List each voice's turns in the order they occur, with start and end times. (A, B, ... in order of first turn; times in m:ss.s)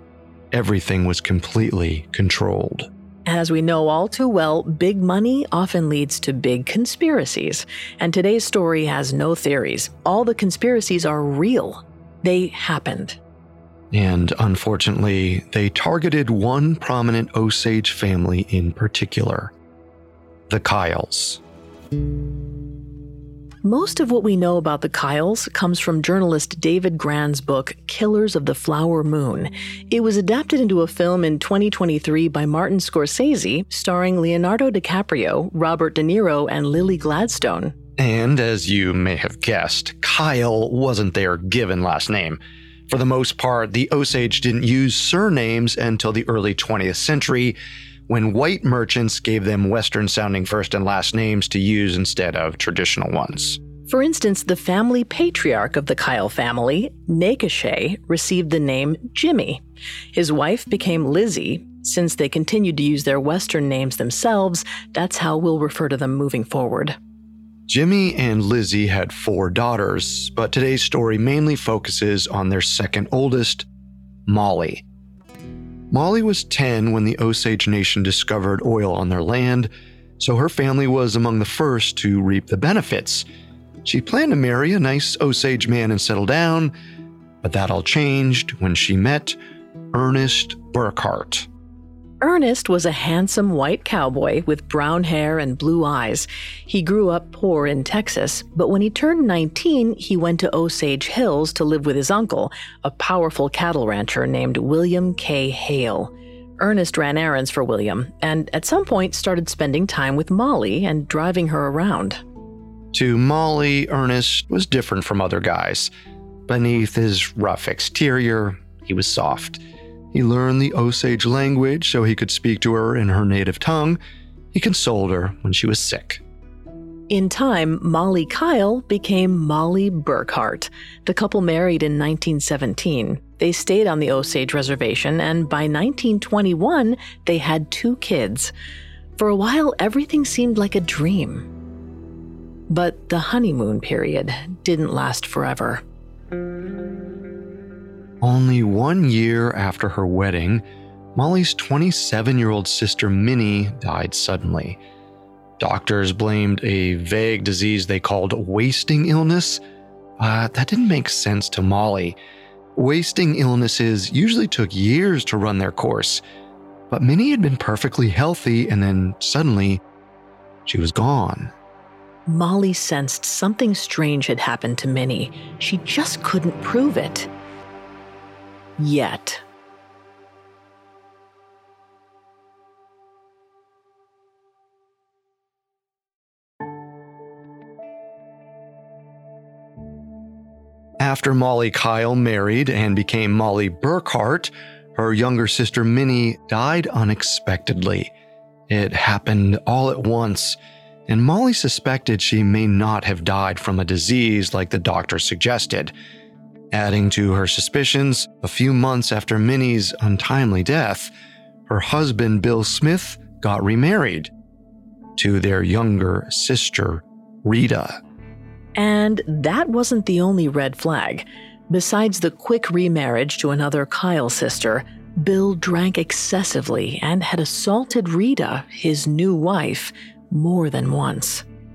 0:00.5-0:02.9 A
0:03.3-0:13.2 B
0:13.9-0:19.5 A
0:20.5-0:21.4 A
0:23.6-0:37.8 B
0:38.0-0:47.6 A
0:48.1-0:53.6 A
0:53.9-0:59.6 B
1:00.1-1:07.0 B
1:07.7-1:13.7 A
1:14.3-1:14.8 A
1:15.9-1:23.3 A
1:23.8-1:26.7 A
1:27.4-1:29.4 A
1:29.9-1:31.5 A
1:32.2-1:52.2 B
1:52.9-1:55.9 A
1:56.5-1:59.6 A
2:00.1-2:04.0 A
2:04.5-2:06.2 A
2:07.1-2:18.5 B
2:19.2-2:21.5 B
2:22.7-2:25.8 B
2:28.2-2:30.6 A
2:31.2-2:34.8 A
2:35.6-2:39.6 A
2:40.2-2:42.2 A
2:42.8-2:46.2 A
2:46.9-2:49.8 A
2:50.7-2:51.5 A
2:52.3-2:57.3 B
2:58.8-2:59.4 B
3:11.0-3:18.1 A
3:18.7-3:20.6 A
3:21.1-3:25.9 A
3:26.7-3:31.1 A
3:31.7-3:34.3 A
3:35.2-3:38.0 A
3:38.8-3:51.4 B